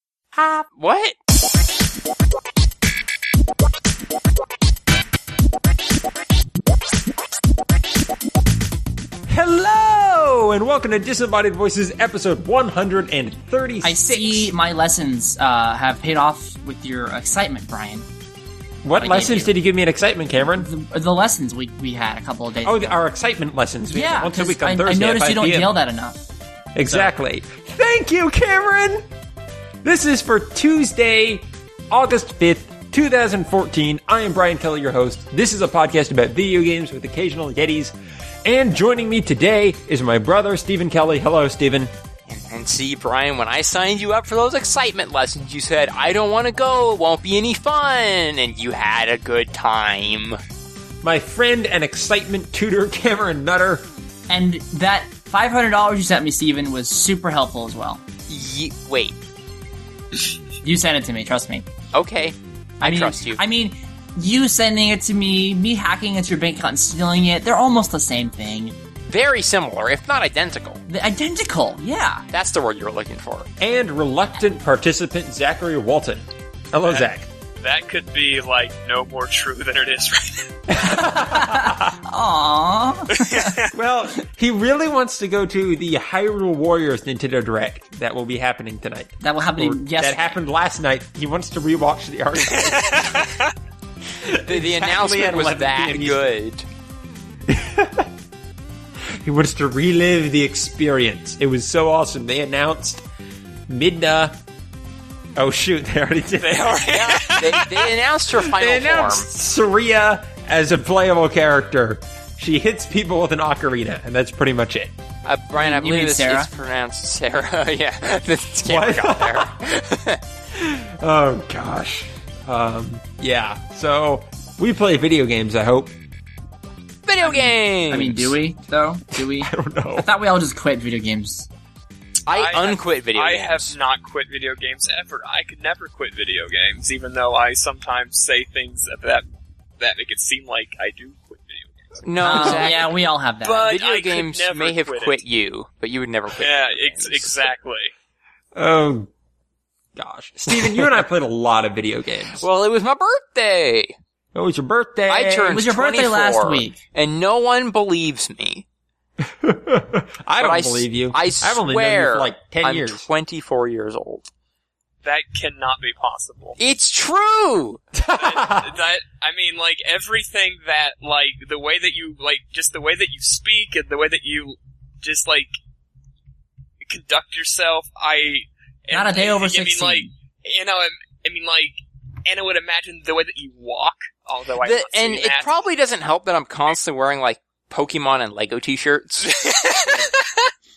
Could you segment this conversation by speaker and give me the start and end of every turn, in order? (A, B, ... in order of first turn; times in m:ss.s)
0:00.4-0:01.1 A
0:09.3-0:14.5 B
0:13.8-0:18.1 C
0:18.8-0:20.7 B
0:19.0-0:19.5 C
0:20.4-0:23.0 C
0:22.6-0:25.7 B
0:23.9-0:26.2 C
0:26.8-0:29.0 B
0:29.8-0:37.9 B
0:38.4-0:41.9 B
0:42.3-0:50.4 A
0:51.0-0:53.8 B
0:54.3-0:58.0 C
0:58.3-0:59.2 A
1:00.6-1:01.7 C
1:01.9-1:03.4 A
1:02.8-1:08.8 C
1:09.1-1:10.8 A
1:10.9-1:12.3 C
1:12.3-1:13.5 A
1:13.6-1:17.3 B
1:17.6-1:20.6 D
1:20.7-1:22.0 B
1:20.8-1:23.6 C
1:23.1-1:23.7 D
1:23.7-1:33.3 B
1:29.2-1:30.4 C
1:32.6-1:33.5 D
1:34.2-1:36.3 B
1:34.3-1:36.6 A
1:37.5-1:38.1 B
1:39.2-1:43.0 B
1:43.7-1:44.4 B
1:45.4-1:47.0 B
1:46.4-1:47.9 D
1:46.9-1:49.3 A
1:48.4-1:54.9 B
1:55.2-2:00.2 A
1:55.6-1:56.5 C
1:58.7-1:59.5 B
2:00.5-2:05.9 B
2:07.1-2:08.4 A
2:07.2-2:11.5 C
2:09.2-2:10.1 B
2:12.3-2:13.8 A
2:12.3-2:19.2 D
2:19.8-2:22.8 D
2:22.0-2:22.9 A
2:22.2-2:23.8 C
2:23.4-2:25.2 D
2:23.7-2:27.5 A
2:26.4-2:27.9 D
2:28.6-2:29.1 B
2:30.0-2:32.4 B
2:32.4-2:33.9 A
2:34.3-2:35.6 B
2:35.1-2:38.7 A
2:35.5-2:36.8 C
2:39.2-2:43.1 B
2:40.4-2:44.3 A
2:45.0-2:46.6 D
2:46.6-2:47.8 A
2:47.9-2:48.8 B
2:48.2-2:55.6 D
2:56.8-3:05.5 D
2:58.9-3:00.1 C
3:04.6-3:10.2 A